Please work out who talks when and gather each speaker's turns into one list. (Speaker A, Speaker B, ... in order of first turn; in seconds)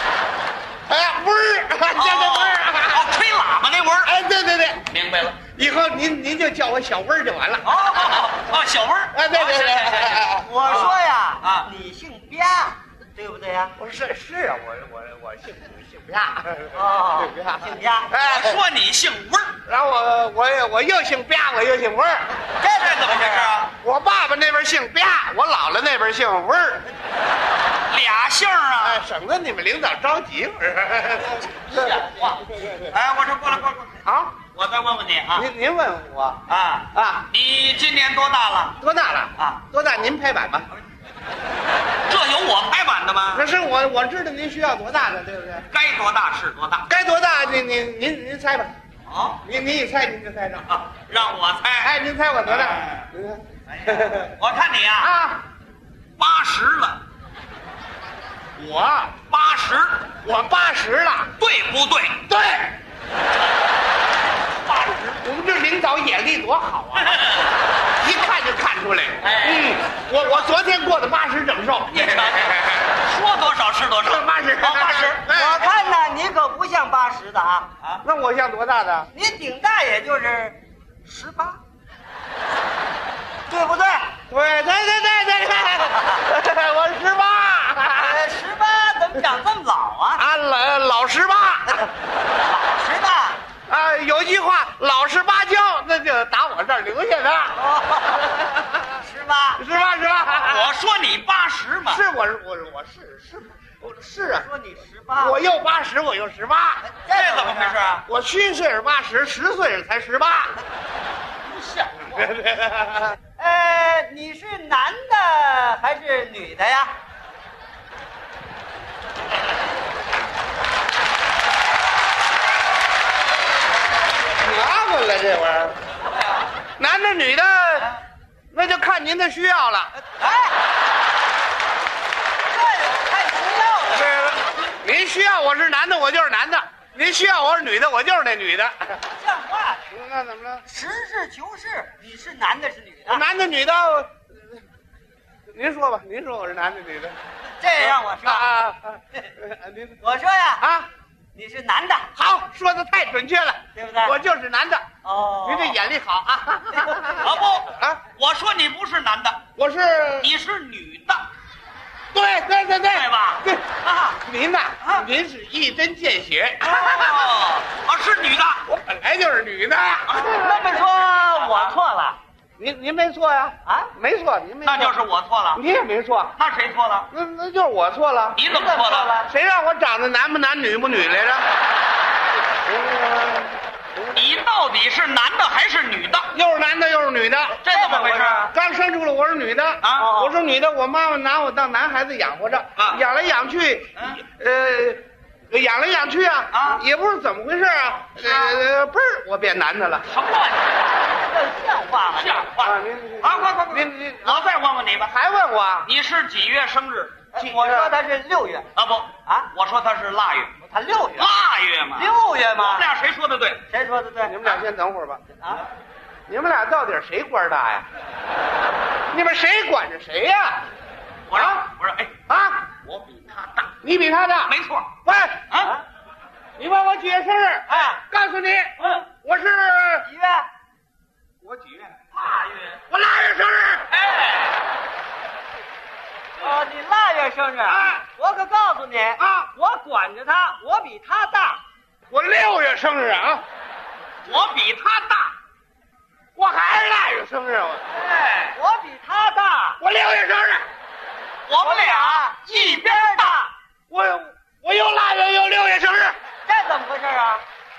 Speaker A: 0.9-3.1, 4.0-4.9, 5.5-8.0, 9.1-10.9, 13.8-18.6, 19.6-22.3, 23.7-26.9, 28.8-31.9, 34.0-34.4, 35.3-37.3, 38.8-40.7, 43.3-45.7, 46.9-48.7, 49.4-50.7, 51.8-54.3, 55.0-55.4, 58.6-59.2, 60.2-61.3, 62.3-62.8, 65.2-67.2, 68.0-72.9, 74.0-76.0, 78.0-79.1, 84.3-88.2, 90.2-91.9, 93.7-97.6, 99.6-100.7, 101.9-104.5, 105.2-106.8, 108.0-110.5, 112.1-113.2, 124.3-125.8, 126.8-127.9, 128.5-129.9, 133.9-139.0, 139.9-140.6, 143.1-144.2, 145.5-147.2, 147.8-150.0, 150.6-150.9, 152.2-154.8, 155.4-158.1, 159.5-160.3, 162.1-167.4, 168.7-170.7, 172.6-174.9, 175.5-176.3, 177.1-181.5, 182.6-184.2, 186.3-187.6, 188.3-200.1, 202.6-205.9, 207.4-208.0, 214.2-215.2, 216.3-217.9, 219.1-220.7, 221.3-221.7, 222.3-222.8, 223.7-225.5, 226.6-230.1, 231.4-232.0, 232.9-233.9, 237.6-238.0, 239.2-239.5, 242.1-243.4, 246.4-247.8, 249.8-250.7, 253.9-256.1
Speaker B: 1.9-4.1, 4.9-5.4, 7.6-11.7, 18.1-19.6, 22.6-23.7, 27.9-29.1, 31.6-35.5, 36.5-38.8, 39.4-39.6, 42.1-43.5, 45.7-46.9, 49.1-49.4, 50.7-51.9, 52.4-53.1, 53.7-55.1, 56.2-57.0, 59.3-60.1, 61.4-62.2, 64.6-65.2, 67.0-67.5, 69.2-69.9, 71.9-75.2, 100.3-102.0, 107.1-108.0, 111.4-112.3, 157.2-159.4, 160.2-161.3, 162.9-163.5, 166.7-168.7, 170.1-171.8, 174.6-175.6, 176.4-177.1, 178.3-179.1, 184.1-186.3, 187.6-188.5, 189.8-190.1, 192.8-193.0, 194.0-194.2, 196.5-196.8, 198.1-198.6, 200.1-200.8, 202.1-205.1, 205.8-207.2, 208.8-210.5, 211.2-213.6, 221.3-222.1, 222.8-223.7, 224.5-224.9, 232.2-232.8, 233.9-234.5, 244.2-245.3, 248.1-248.6, 251.5-253.4
Speaker C: 7.9-8.3, 10.4-13.8, 16.7-18.1, 22.6-23.6, 75.3-77.7, 79.1-81.6, 83.5-84.1, 88.0-90.2, 92.4-93.4, 97.5-98.4, 98.9-99.6, 104.3-105.4, 106.8-107.8, 113.4-116.9, 130.2-130.5, 132.5-134.2, 139.1-139.8, 140.7-143.2, 147.6-148.5, 150.0-150.7, 151.3-152.1, 153.8-154.2, 155.0-155.8, 157.0-157.3, 170.2-172.2, 178.5-179.3, 187.7-188.4, 190.0-190.4, 201.1-202.5, 207.3-208.7, 210.6-211.3, 211.9-212.9, 213.7-214.6, 215.4-215.6, 227.7-228.0, 230.0-230.5, 236.4-241.6, 248.5-249.8, 251.6-253.5, 256.5-257.4